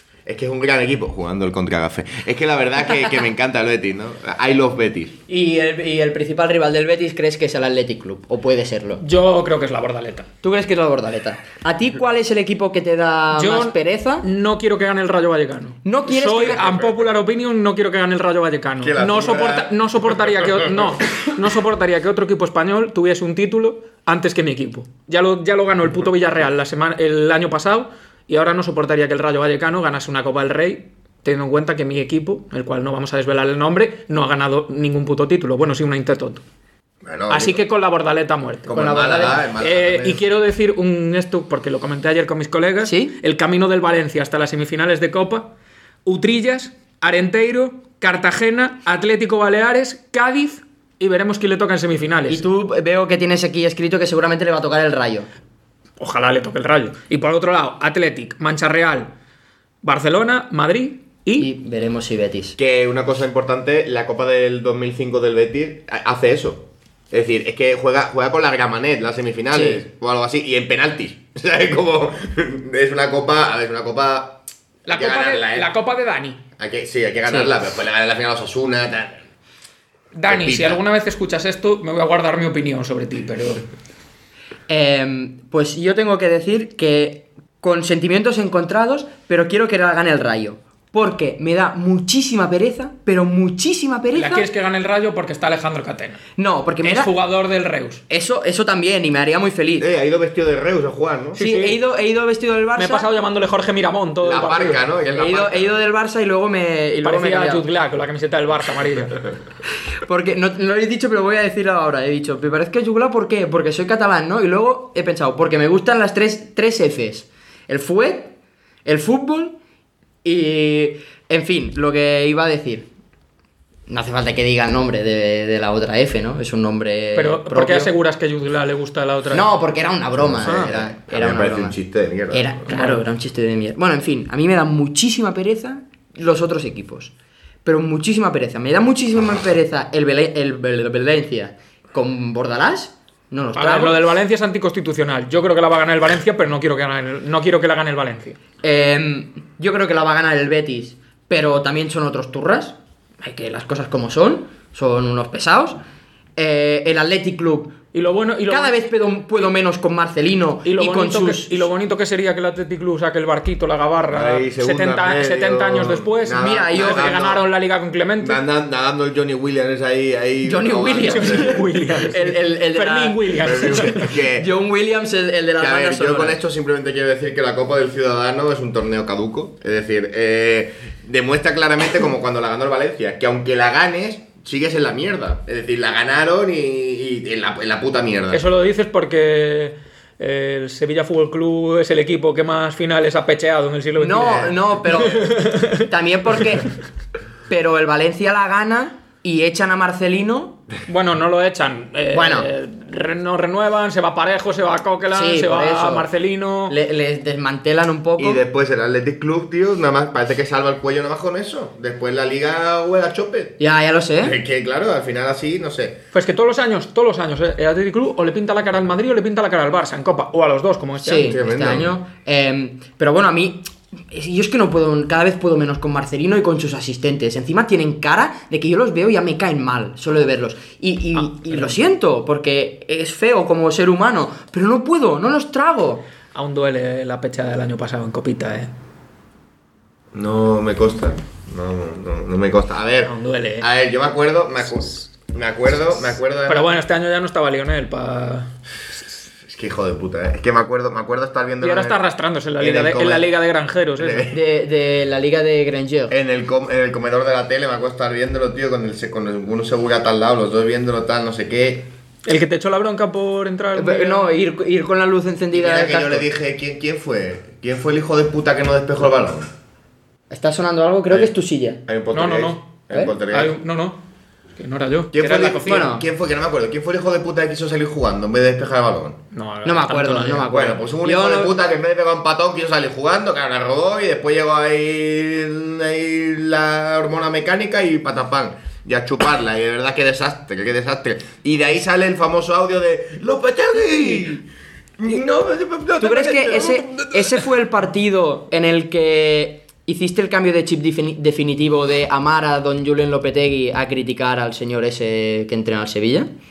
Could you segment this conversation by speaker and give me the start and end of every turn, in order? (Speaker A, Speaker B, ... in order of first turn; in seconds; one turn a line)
Speaker A: 0.2-5.2
Speaker B: 5.3-9.0
Speaker C: 9.0-10.3
Speaker B: 10.4-14.2
Speaker C: 13.3-36.4
Speaker B: 15.8-16.8
Speaker A: 16.4-17.1
Speaker A: 18.8-20.9
Speaker A: 37.0-37.6
Speaker C: 37.3-38.7
Speaker A: 38.6-40.2
Speaker B: 38.7-39.5
Speaker C: 39.6-45.5
Speaker B: 42.8-43.1
Speaker C: 46.0-52.4
Speaker B: 52.3-55.3
Speaker C: 56.0-59.1
Speaker C: 59.8-61.5
Speaker B: 61.4-62.6
Speaker A: 62.6-75.7
Speaker B: 69.5-69.8
Speaker C: 74.8-76.4
Speaker A: 76.6-79.2
Speaker C: 80.1-83.6
Speaker A: 80.3-80.8
Speaker B: 84.7-94.5
Speaker C: 94.1-96.2
Speaker B: 96.4-97.1
Speaker C: 96.8-98.0
Speaker B: 98.1-99.9
Speaker A: 99.8-101.4
Speaker C: 101.4-101.8
Speaker B: 101.4-103.1
Speaker C: 102.8-104.9
Speaker A: 104.2-105.8
Speaker B: 105.1-107.6
Speaker C: 107.0-109.2
Speaker B: 110.0-118.3
Speaker B: 118.8-119.6
Speaker B: 120.2-122.9
Speaker B: 123.9-127.9
Speaker C: 127.1-129.4
Speaker B: 129.3-131.8
Speaker A: 130.2-132.6
Speaker C: 130.4-130.7
Speaker B: 132.3-137.1
Speaker C: 132.7-133.0
Speaker B: 137.6-144.0
Speaker C: 143.6-148.4
Speaker B: 148.6-155.8
Speaker B: 156.3-157.8
Speaker C: 157.9-158.8
Speaker B: 158.5-161.7
Speaker C: 160.6-168.4
Speaker A: 164.1-167.4
Speaker B: 166.3-167.1
Speaker A: 168.2-171.7
Speaker B: 170.4-176.4
Speaker C: 171.1-174.2
Speaker A: 173.4-174.5
Speaker A: 175.6-188.4
Speaker C: 188.3-195.9
Speaker B: 194.0-196.7
Speaker B: 197.5-200.6
Speaker C: 200.8-206.7
Speaker B: 202.1-202.5
Speaker B: 205.1-206.1
Speaker B: 206.7-208.4
Speaker A: 208.2-213.6
Speaker B: 213.6-214.3
Speaker A: 214.2-216.0
Speaker C: 216.1-221.3
Speaker B: 221.0-236.0
Speaker A: 221.2-221.9
Speaker C: 236.3-238.7
Speaker A: 240.1-246.8
Speaker C: 243.1-243.7
Speaker C: 246.5-248.5
Speaker A: 249.5-252.0
Speaker C: 251.6-254.3
Speaker A: 252.6-253.2
Speaker A: 254.0-254.4
Speaker B: 254.3-256.1
Speaker A: 256.1-261.9
Speaker C: 262.2-264.3
Speaker B: 263.7-266.2
Speaker A: 265.5-269.5
Speaker B: 270.3-271.8
Speaker A: 271.9-273.5
Speaker C: 272.1-274.0
Speaker C: 274.6-275.9
Speaker A: 275.1-279.2
Speaker B: 275.6-276.1
Speaker C: 279.3-280.5
Speaker B: 279.6-281.5
Speaker A: 280.5-294.4
Speaker A: 295.0-297.5
Speaker B: 296.0-306.3